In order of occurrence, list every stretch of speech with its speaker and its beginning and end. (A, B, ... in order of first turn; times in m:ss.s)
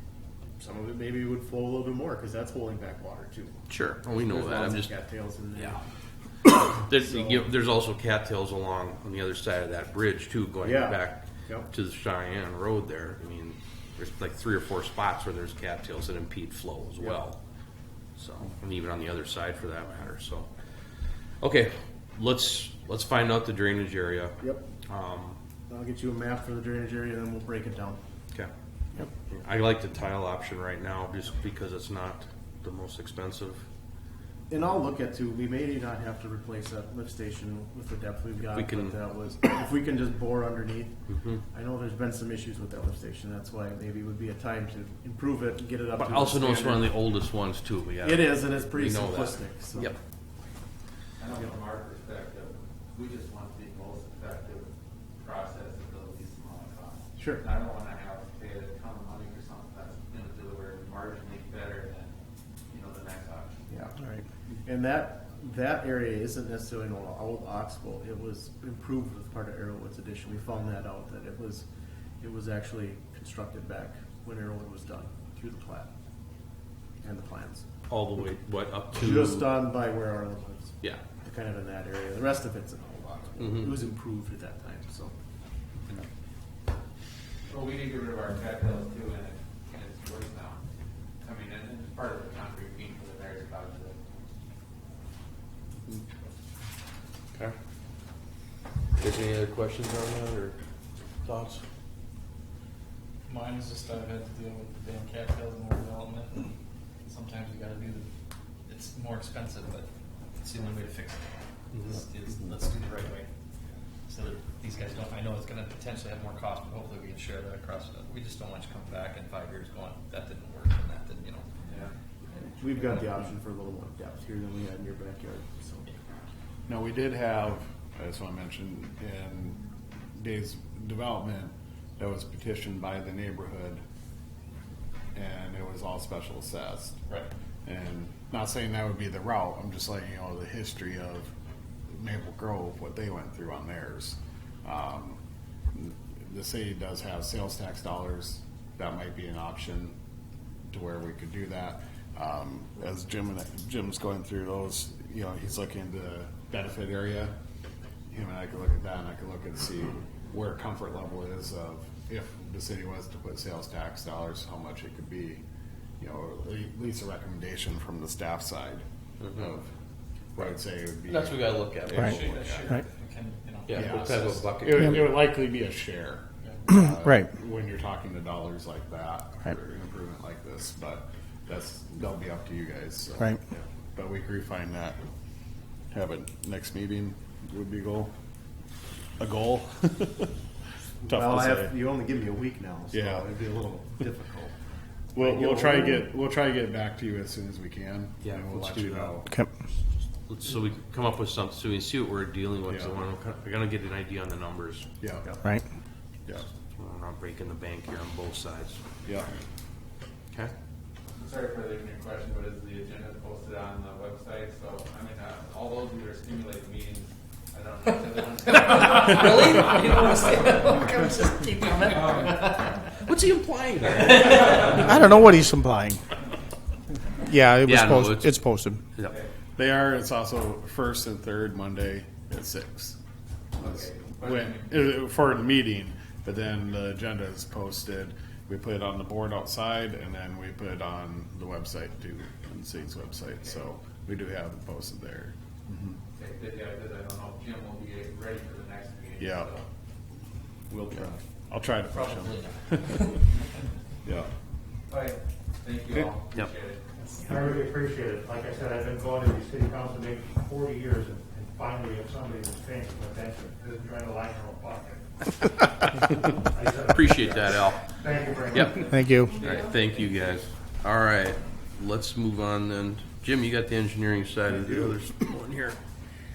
0:00.6-0:05.8 A
0:03.7-0:04.9 B
0:06.4-0:17.4 B
0:07.0-0:07.5 A
0:10.6-0:11.7 A
0:18.2-0:20.5 B
0:21.4-0:25.4 B
0:24.4-0:24.7 A
0:25.7-0:28.0 A
0:29.3-0:33.6 B
0:34.5-0:47.0 A
0:38.6-0:39.0 B
0:41.1-0:41.4 B
0:46.0-0:50.0 B
0:48.0-0:50.0 A
0:51.2-0:54.7 C
0:55.2-1:02.1 C
0:57.2-0:57.4 A
1:02.7-1:03.5 C
1:04.6-1:11.7 A
1:12.2-1:15.9 A
1:17.0-1:17.7 A
1:17.9-1:19.6 B
1:18.9-1:25.2 A
1:27.5-1:30.6 C
1:31.2-1:34.1 C
1:39.0-1:40.6 B
1:41.2-1:41.6 B
1:43.3-1:48.1 D
1:48.7-1:49.9 D
1:50.4-1:51.2 D
1:51.7-1:52.0 B
1:51.8-1:53.3 D
1:54.1-2:01.5 D
2:01.7-2:01.9 C
2:02.4-2:06.0 A
2:06.7-2:09.6 E
2:10.2-2:13.8 E
2:15.1-2:17.0 E
2:17.6-2:21.3 E
2:22.0-2:25.2 E
2:25.7-2:29.9 E
2:30.7-2:37.3 E
2:38.1-2:45.4 E
2:46.0-2:48.8 E
2:49.2-2:49.5 B
2:49.4-2:49.7 E
2:50.4-2:52.7 E
2:51.1-2:52.6 B
2:52.1-2:54.5 D
2:53.7-2:55.2 B
2:53.7-3:05.0 E
2:57.0-2:57.3 F
3:05.9-3:08.1 E
3:09.2-3:10.3 E
3:11.0-3:14.5 A
3:11.1-3:11.7 E
3:12.9-3:13.2 E
3:15.2-3:19.3 E
3:15.2-3:16.1 A
3:18.2-3:19.2 B
3:19.2-3:19.5 F
3:20.2-3:24.9 B
3:22.7-3:23.0 E
3:25.0-3:25.3 E
3:26.7-3:28.8 B
3:29.0-3:29.3 E
3:31.1-3:40.7 C
3:38.5-3:42.7 D
3:39.1-3:39.8 B
3:41.9-3:42.6 C
3:43.0-3:44.9 B
3:44.1-3:44.8 C
3:44.7-3:46.0 F
3:47.2-3:48.8 F
3:47.6-3:48.4 B
3:49.6-3:53.0 E
3:53.6-3:54.6 C
3:53.6-4:06.0 E
4:06.2-4:09.6 C
4:09.2-4:09.5 E
4:10.7-4:13.2 E
4:12.0-4:13.2 D
4:14.0-4:14.3 E
4:14.9-4:16.8 C
4:17.2-4:25.1 G
4:26.3-4:29.0 G
4:26.9-4:27.9 B
4:28.5-4:35.8 B
4:28.9-4:29.4 F
4:34.6-4:34.9 A